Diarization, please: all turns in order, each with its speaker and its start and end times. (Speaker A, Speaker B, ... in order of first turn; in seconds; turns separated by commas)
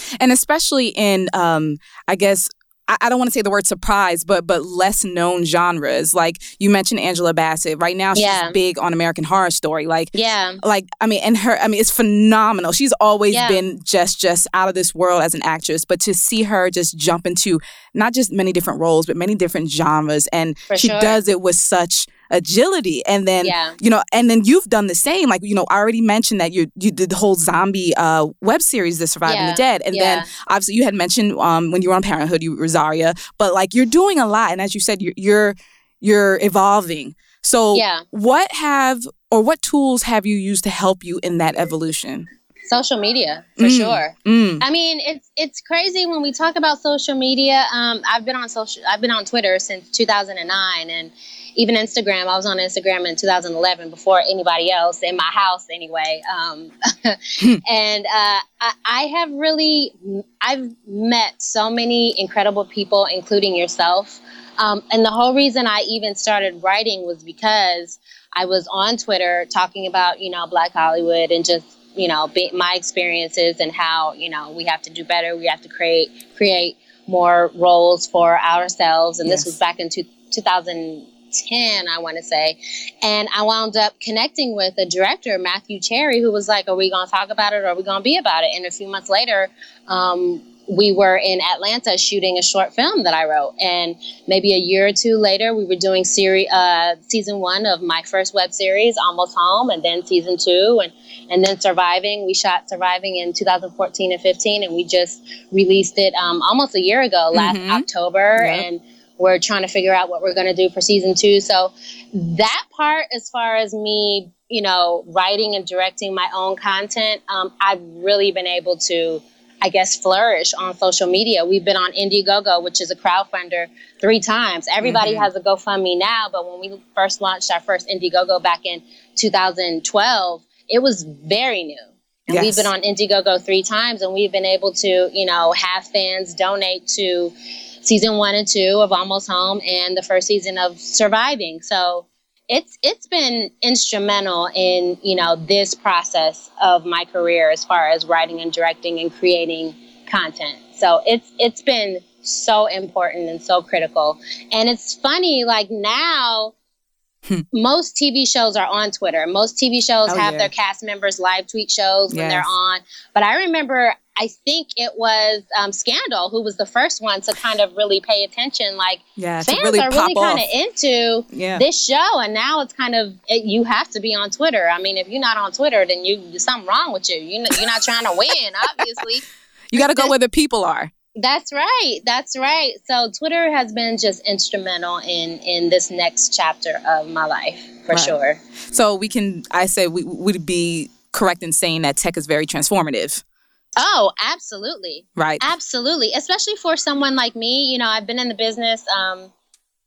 Speaker A: 0.2-42.3, Speaker B: 8.2-8.6, Speaker B: 10.1-10.6, Speaker B: 13.3-13.6, Speaker B: 20.7-21.2, Speaker B: 23.4-23.8, Speaker B: 29.3-30.3, Speaker B: 37.7-38.0, Speaker B: 42.7-137.3, Speaker A: 43.6-44.6, Speaker A: 79.2-79.5, Speaker A: 107.3-107.8, Speaker A: 108.4-108.7, Speaker A: 124.8-125.3, Speaker A: 132.3-132.7, Speaker B: 137.8-156.5, Speaker B: 157.5-180.1, Speaker A: 160.1-160.5, Speaker A: 162.1-162.5, Speaker A: 169.2-170.4, Speaker A: 171.3-171.6, Speaker A: 179.7-180.9, Speaker B: 181.2-188.4, Speaker A: 188.7-193.2, Speaker B: 193.8-199.3, Speaker A: 195.2-195.5